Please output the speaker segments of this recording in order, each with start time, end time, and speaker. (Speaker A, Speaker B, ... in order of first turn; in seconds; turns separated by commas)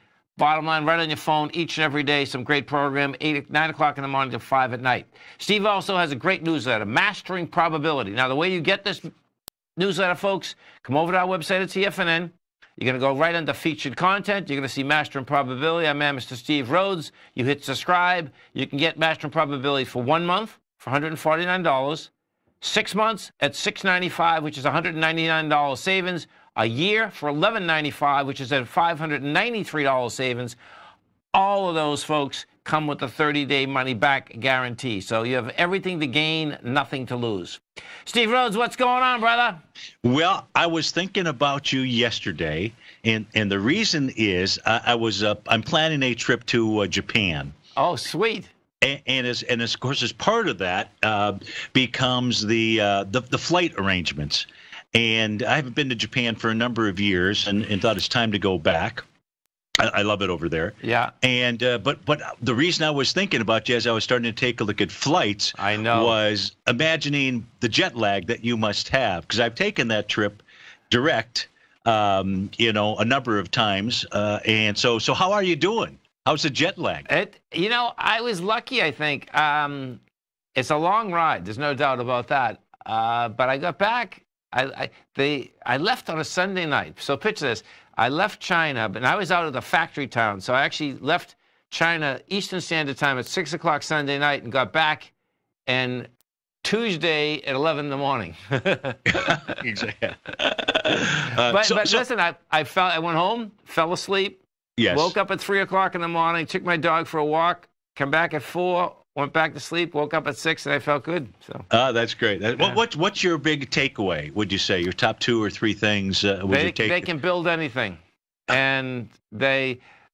Speaker A: 0.4-9.1, Speaker A: 9.8-30.6, Speaker A: 31.3-39.6, Speaker B: 40.0-47.5, Speaker A: 47.8-48.5, Speaker B: 48.8-59.0, Speaker B: 59.8-77.0, Speaker A: 60.8-61.1, Speaker A: 65.5-66.2, Speaker A: 77.1-80.0, Speaker A: 80.5-95.1, Speaker A: 95.7-96.1, Speaker A: 96.6-99.0, Speaker B: 99.1-102.0, Speaker A: 101.4-111.7, Speaker B: 104.8-105.1, Speaker B: 111.7-117.1, Speaker A: 116.5-119.8